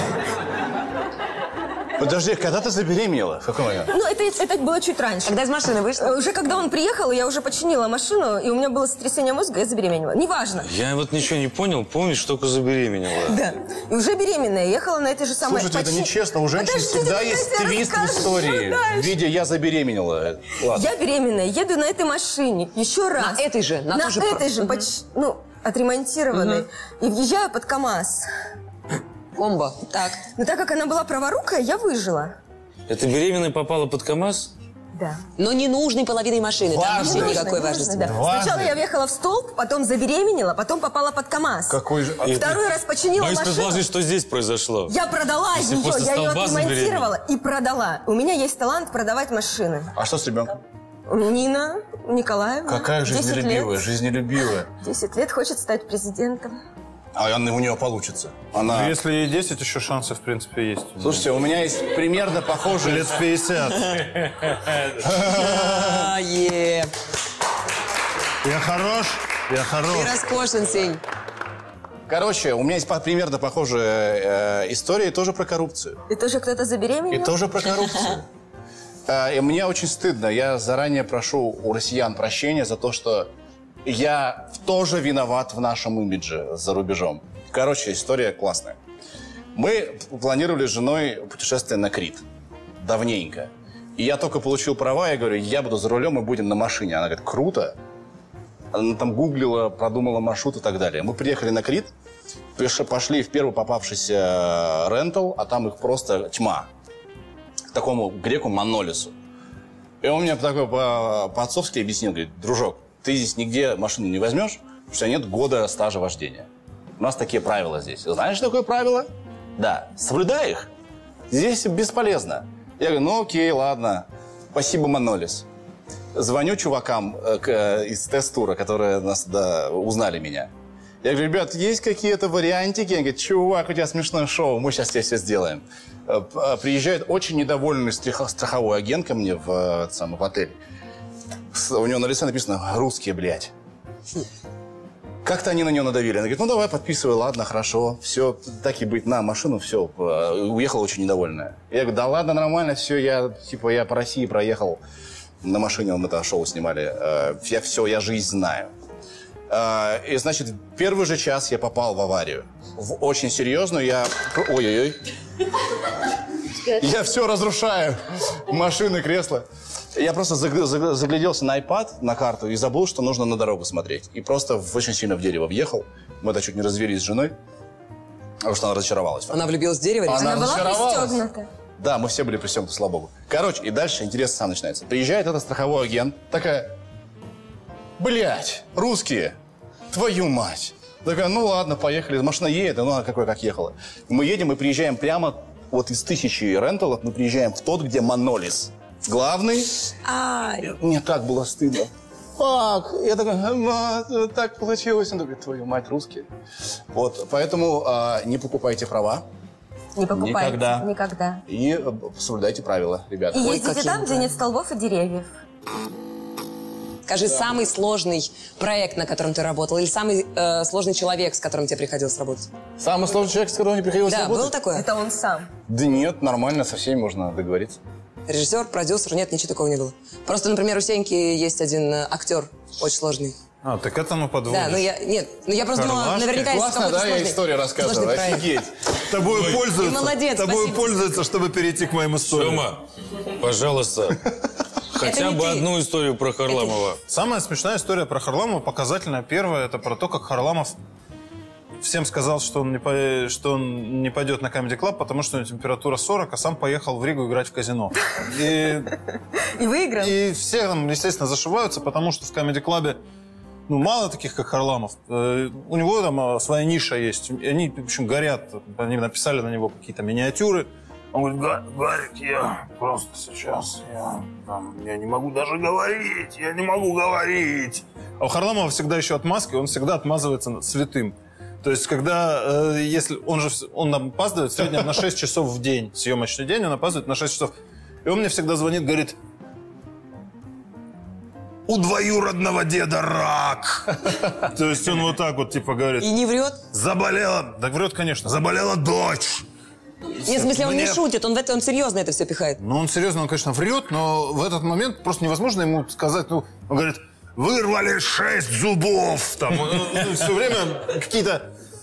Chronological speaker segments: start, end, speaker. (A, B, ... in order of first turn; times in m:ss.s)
0:02.0-0:03.9 A
0:03.9-0:05.4 B
0:05.2-0:06.2 C
0:06.0-0:10.7 B
0:10.6-0:13.4 D
0:13.2-0:19.1 B
0:15.4-0:20.9 A
0:20.7-0:28.3 B
0:23.2-0:24.8 C
0:26.3-0:26.6 C
0:29.4-0:30.2 C
0:30.4-0:32.4 B
0:32.9-0:34.5 D
0:35.0-0:35.2 B
0:35.4-0:38.1 C
0:36.7-0:37.5 A
0:36.9-0:43.8 B
0:38.0-0:38.8 A
0:41.7-0:42.6 A
0:42.2-0:42.6 D
0:43.2-0:45.0 D
0:44.9-0:49.9 B
0:45.5-0:47.1 D
0:50.0-0:50.6 A
0:51.1-0:53.8 B
0:52.6-0:54.7 A
0:54.8-0:56.5 B
0:57.2-0:59.0 A
0:58.6-1:01.2 E
1:01.0-1:03.2 A
1:02.8-1:04.3 E
1:05.0-1:06.1 A
1:05.2-1:06.9 C
1:08.4-1:10.2 E
1:09.9-1:11.0 C
1:12.1-1:16.0 A
1:16.1-1:17.3 B
1:17.1-1:18.3 A
1:19.1-1:23.3 A
1:23.8-1:28.8 A
1:29.6-1:32.2 A
1:32.8-1:37.8 A
1:38.7-1:41.9 A
1:42.6-1:46.7 A
1:47.7-1:49.1 A
1:50.0-1:56.5 A
1:57.0-2:00.7 A
2:01.3-2:05.4 A
2:06.1-2:10.5 A
2:11.0-2:20.6 A
2:21.5-2:23.5 A
2:25.2-2:34.8 A
2:35.4-2:38.7 A
2:39.5-2:45.0 A
2:46.6-2:57.3 A
2:58.4-3:01.2 A
2:59.3-3:00.7 C
3:00.1-3:01.5 B
3:01.8-3:06.7 A
3:08.0-3:09.4 A
3:09.9-3:19.8 A
3:20.0-3:20.7 C
3:20.6-3:26.3 A
3:26.9-3:29.3 A
3:30.0-3:31.4 B
3:30.1-3:30.9 A
3:31.5-3:33.6 A
3:33.3-3:35.3 B
3:33.4-3:34.3 C
3:37.1-3:42.5 C
3:42.8-3:44.6 A
3:44.1-3:44.9 C
3:44.7-3:45.5 B
3:45.7-3:47.8 A
3:48.3-3:53.4 C
3:53.6-3:54.9 E
3:54.5-3:58.5 C
3:55.6-3:56.5 E
3:56.4-3:58.7 A
3:59.0-4:02.7 E
3:59.3-3:59.6 D
3:59.5-4:01.1 C
4:02.3-4:04.3 D
4:04.9-4:07.0 D
4:05.0-4:05.7 C
4:06.5-4:06.8 C
4:07.1-4:10.8 E
4:11.8-4:19.0 E
4:19.6-4:20.2 B
4:20.0-4:23.0 E
4:23.7-4:47.5 E
4:48.0-4:49.2 E
4:51.7-4:56.1 E
4:56.0-4:56.6 C
4:56.7-4:59.5 E
5:00.3-5:01.0 E
5:00.3-5:02.6 C
5:02.6-5:11.5 E